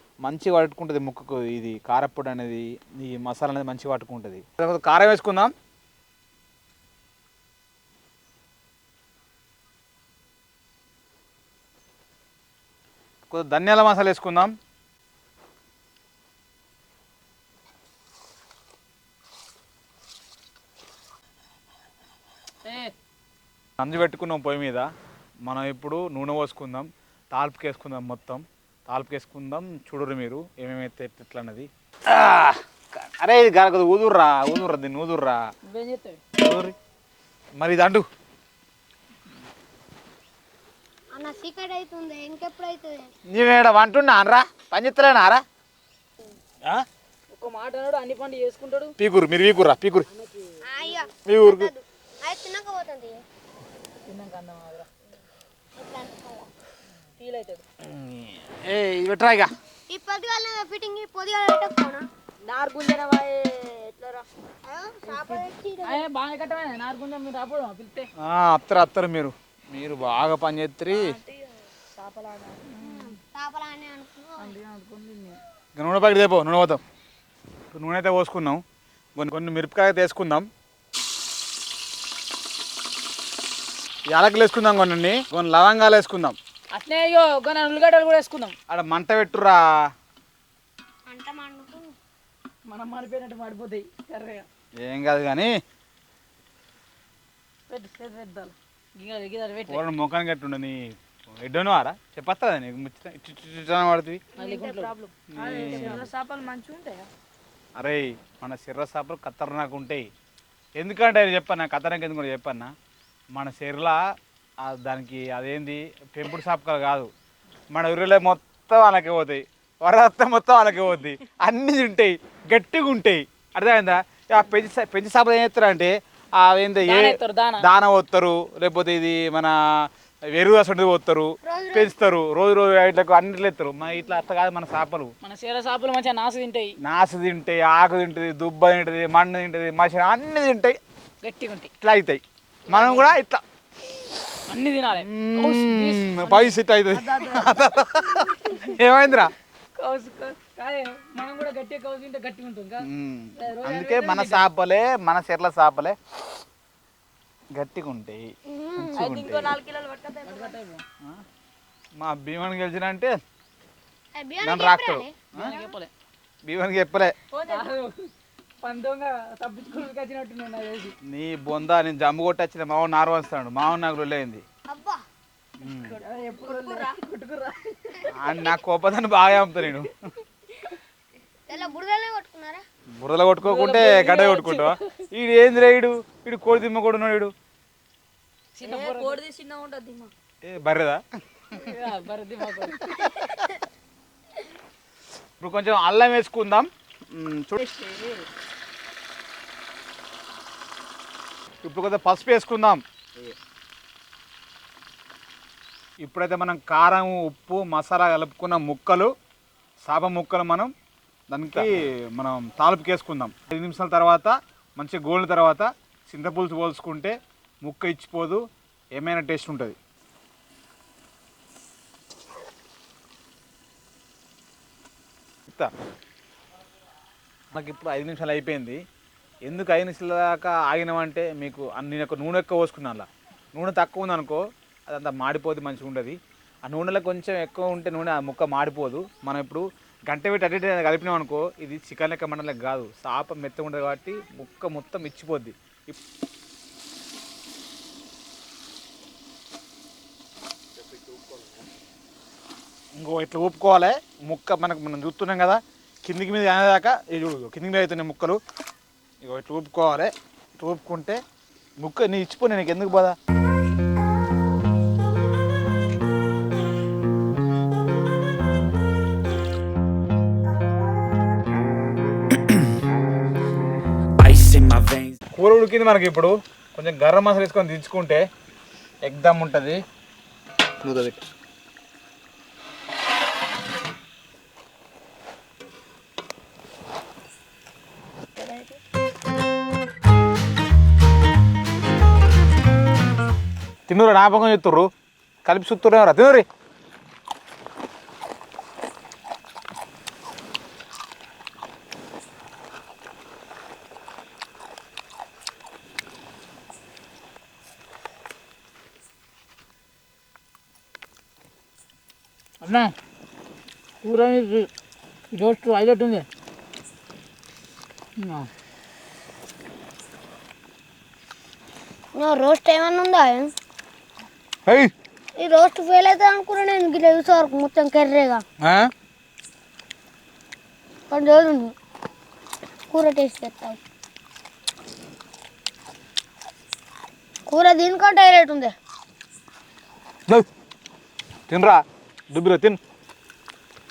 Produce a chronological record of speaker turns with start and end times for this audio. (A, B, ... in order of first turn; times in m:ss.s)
0:00.2-0:05.5 A
0:13.3-0:14.5 A
0:22.6-0:22.9 B
0:23.8-0:24.9 A
0:25.4-0:35.4 A
0:35.6-0:36.2 B
0:36.4-0:36.7 A
0:37.6-0:38.1 A
0:41.1-0:43.1 C
0:43.3-0:45.4 A
0:47.3-0:49.0 B
0:49.0-0:50.1 A
0:50.1-0:50.5 B
0:50.6-0:53.2 C
0:51.2-0:51.7 A
0:54.1-0:54.9 B
0:55.8-0:56.5 C
0:57.2-0:57.6 B
0:57.8-0:59.5 A
0:59.9-1:02.1 C
1:02.5-1:04.2 D
1:04.7-1:06.0 C
1:05.1-1:08.1 B
1:08.2-1:11.1 A
1:10.9-1:12.8 D
1:12.7-1:13.1 B
1:12.8-1:14.6 C
1:14.4-1:15.4 B
1:15.8-1:16.8 A
1:17.7-1:18.6 A
1:19.2-1:20.5 A
1:24.1-1:26.4 A
1:26.7-1:28.6 B
1:28.7-1:29.6 A
1:31.1-1:31.9 C
1:32.7-1:34.5 B
1:34.8-1:35.5 A
1:37.7-1:39.8 B
1:39.7-1:44.2 A
1:44.4-1:44.9 B
1:44.4-1:47.1 D
1:45.3-1:46.1 A
1:45.7-1:45.9 B
1:47.8-1:50.1 A
1:50.8-1:52.7 A
1:53.3-1:54.0 A
1:54.6-1:57.1 A
1:57.7-2:15.1 A
2:06.8-2:07.6 B
2:11.4-2:11.9 C
2:15.2-2:16.8 B
2:16.8-2:20.8 A
2:21.2-2:21.7 B
2:21.8-2:23.4 A
2:22.7-2:23.2 B
2:24.5-2:26.5 B
2:25.0-2:29.3 A
2:27.0-2:27.8 D
2:29.8-2:34.5 B
2:32.8-2:36.0 A
2:37.6-2:39.6 A
2:38.5-2:39.0 C
2:39.0-2:40.6 D
2:40.2-2:40.8 B
2:42.0-2:43.1 A
2:44.2-2:45.6 C
2:44.4-2:45.6 A
2:45.4-2:45.9 B
2:46.5-2:47.2 A
2:47.3-2:48.1 B
2:48.6-2:51.0 B
2:51.0-2:54.4 A
2:54.7-2:55.0 C
2:55.6-2:56.0 A
2:55.7-2:58.1 B
2:56.6-2:56.9 D
2:58.0-2:59.9 A
3:01.5-3:02.6 C
3:03.0-3:07.3 A
3:03.4-3:04.8 B
3:08.6-3:09.2 B
3:08.6-3:10.1 D
3:10.4-3:11.0 A
3:11.5-3:12.9 B
3:13.0-3:13.2 A
3:15.4-3:17.6 A
3:17.6-3:18.2 B
3:21.6-3:23.3 A
3:26.0-3:29.1 A
3:29.8-3:30.7 A
3:31.3-3:38.4 A
3:39.0-3:39.8 A
3:47.5-3:48.8 A
3:49.5-4:06.0 A
4:13.0-4:18.4 A
4:19.2-4:21.2 A
4:21.8-4:23.2 A
4:34.2-4:38.2 A
4:39.0-4:39.8 A
4:40.8-4:41.2 A
4:48.4-4:48.8 D
4:53.9-4:54.9 A
4:55.4-4:56.4 A
5:12.6-5:12.9 B
5:14.0-5:14.7 B
5:15.3-5:16.3 B
5:18.2-5:18.5 B
5:22.2-5:23.5 C
5:24.7-5:24.9 A
5:25.4-5:28.4 C
5:28.6-5:28.9 A
5:31.1-5:31.7 C
5:32.9-5:33.8 C
5:37.5-5:38.7 C
5:41.5-5:42.8 A